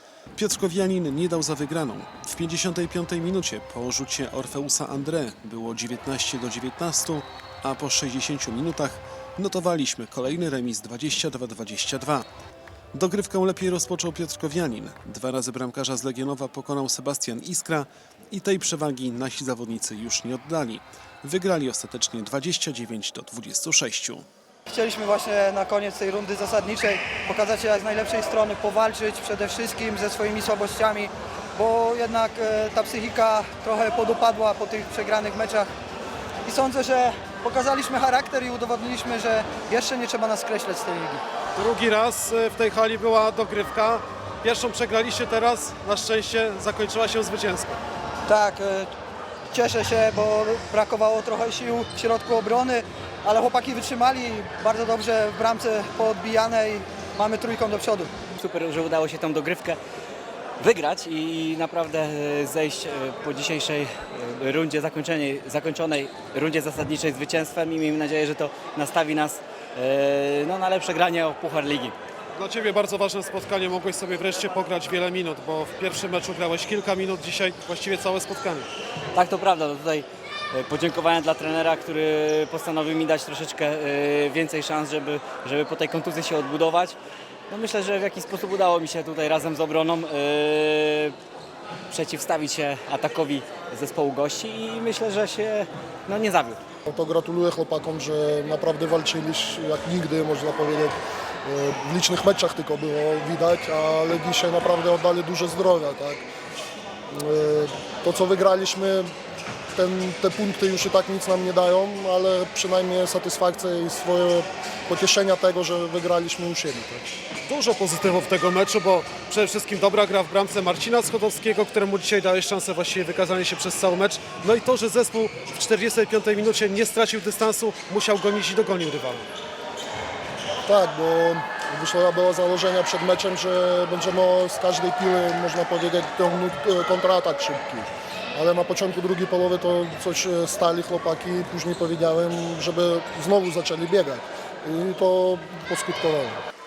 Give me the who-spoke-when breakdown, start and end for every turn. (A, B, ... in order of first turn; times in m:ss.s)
0:00.4-0:12.3 A
0:12.9-0:24.2 A
0:24.7-0:35.7 B
0:36.4-0:41.2 B
0:41.6-0:47.7 C
0:48.3-0:48.9 B
0:49.5-0:58.1 B
0:58.4-0:59.8 D
1:00.6-1:12.0 D
1:12.4-1:18.7 C
1:19.1-1:27.0 D
1:27.5-1:31.1 D
1:31.9-1:36.6 D
1:36.9-1:41.0 E
1:41.5-1:46.2 E
1:47.2-1:49.1 E
1:49.7-1:57.0 E
1:57.5-2:09.2 C
2:10.7-2:26.4 E